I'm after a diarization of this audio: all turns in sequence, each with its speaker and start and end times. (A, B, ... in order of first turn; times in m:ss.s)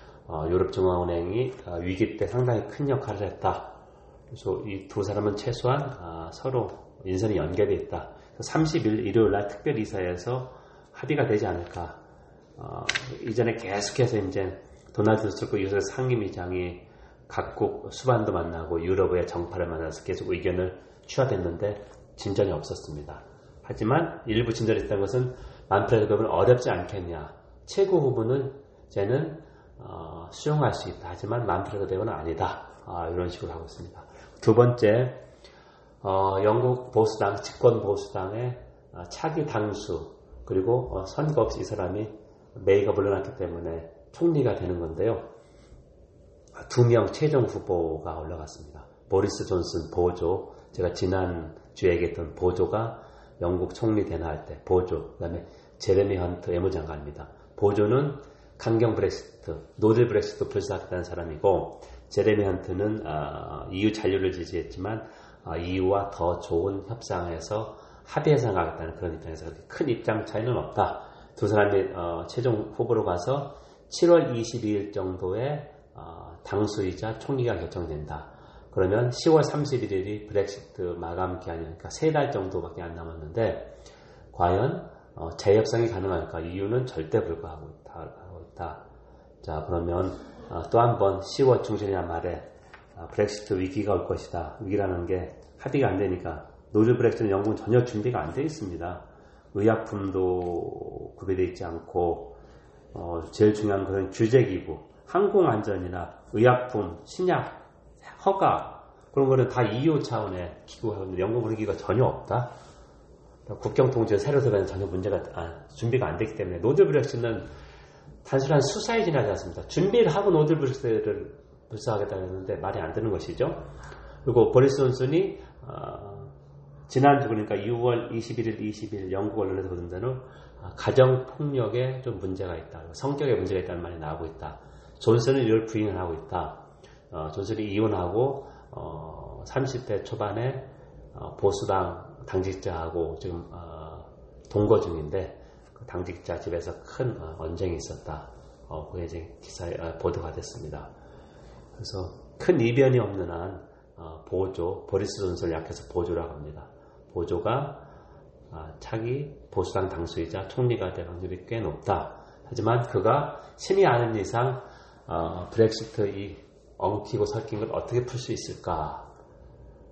0:00.3-0:03.8 A
0:04.3-0:12.0 A
0:12.6-0:35.2 A
0:36.0-0:45.3 A
0:46.6-1:23.7 A
1:24.3-1:28.8 A
1:29.4-1:42.4 A
1:42.9-1:52.5 A
1:53.5-1:57.5 A
1:58.2-2:03.6 A
2:04.2-2:06.3 A
2:06.9-2:30.9 A
2:31.8-2:37.8 A
2:38.5-2:49.1 A